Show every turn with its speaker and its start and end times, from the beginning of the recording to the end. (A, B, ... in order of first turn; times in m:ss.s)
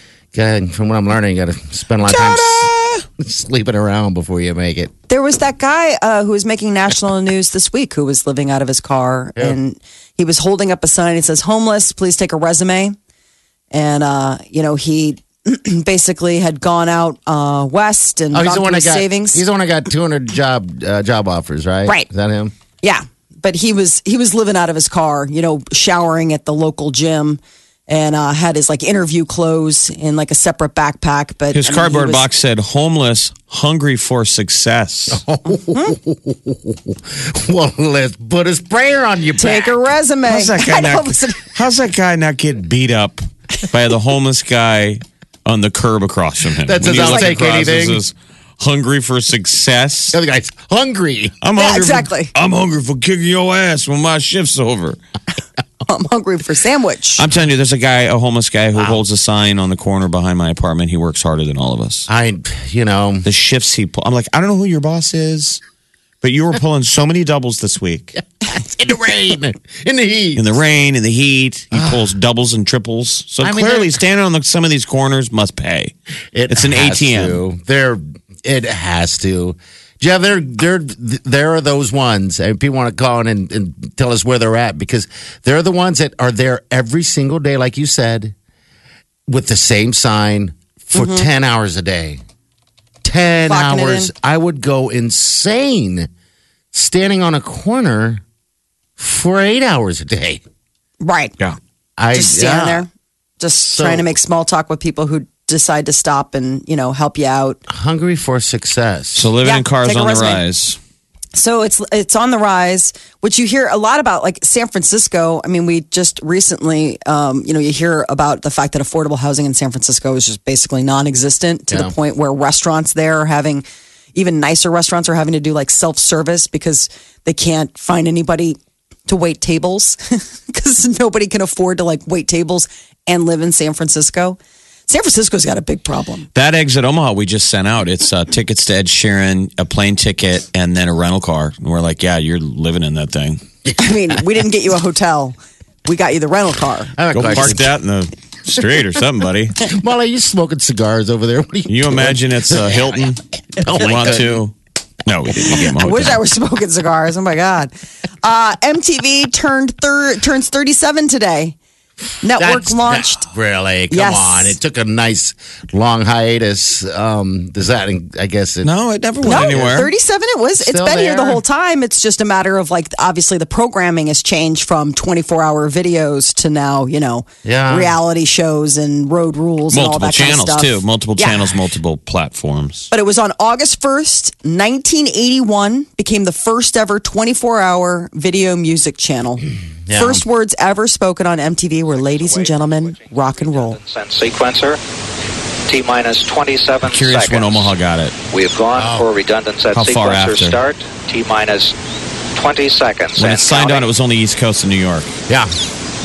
0:00.3-0:04.9 A
0:02.0-0:03.0 B
0:05.1-0:13.0 B
0:13.7-0:19.4 B
0:18.3-0:22.5 A
0:22.8-0:32.2 B
0:31.5-0:35.2 C
0:35.1-0:39.8 A
0:39.4-0:41.5 B
0:40.3-0:50.2 C
0:46.6-0:48.0 A
0:46.9-0:47.3 B
0:50.1-0:51.4 A
0:51.4-0:55.0 C
0:51.6-0:52.3 B
0:55.9-0:57.2 B
0:57.2-1:02.1 C
0:58.7-0:59.0 A
1:02.1-1:03.2 A
1:03.2-1:05.6 C
1:06.2-1:08.2 C
1:08.4-1:10.5 A
1:10.3-1:15.9 C
1:11.7-1:12.0 A
1:13.4-1:14.0 A
1:16.3-1:28.3 A
1:16.5-1:17.4 C
1:29.3-1:32.2 A
1:30.9-1:31.3 B
1:33.0-1:36.1 A
1:33.5-1:34.1 B
1:36.7-1:38.2 A
1:39.0-1:40.4 A
1:41.0-1:41.4 B
1:42.0-1:42.8 A
1:42.1-1:42.9 B
1:43.4-1:47.6 B
1:43.6-1:44.1 A
1:47.7-1:49.3 A
1:49.1-1:50.8 C
1:49.4-1:50.4 B
1:51.3-2:03.6 B
2:04.1-2:16.3 B
2:16.3-2:23.4 C
2:23.8-2:26.9 B
2:27.0-2:27.7 A
2:27.1-2:29.6 C
2:29.6-2:34.4 A
2:31.7-2:34.5 C
2:35.0-2:36.2 C
2:35.7-2:41.6 B
2:42.2-2:43.3 B
2:42.4-2:48.7 A
2:43.9-2:44.6 B
2:48.6-2:49.9 C
2:49.2-3:01.5 B
2:49.3-2:49.8 A
2:50.6-2:51.4 A
2:57.4-2:58.0 A
2:59.7-3:02.9 C
3:02.9-3:13.8 B
3:09.8-3:10.2 A
3:11.9-3:14.8 D
3:15.7-3:17.7 D
3:16.8-3:18.1 C
3:18.3-3:21.8 D
3:18.7-3:19.1 A
3:19.7-3:20.6 C
3:22.3-3:23.9 D
3:23.2-3:25.1 C
3:25.3-3:25.5 A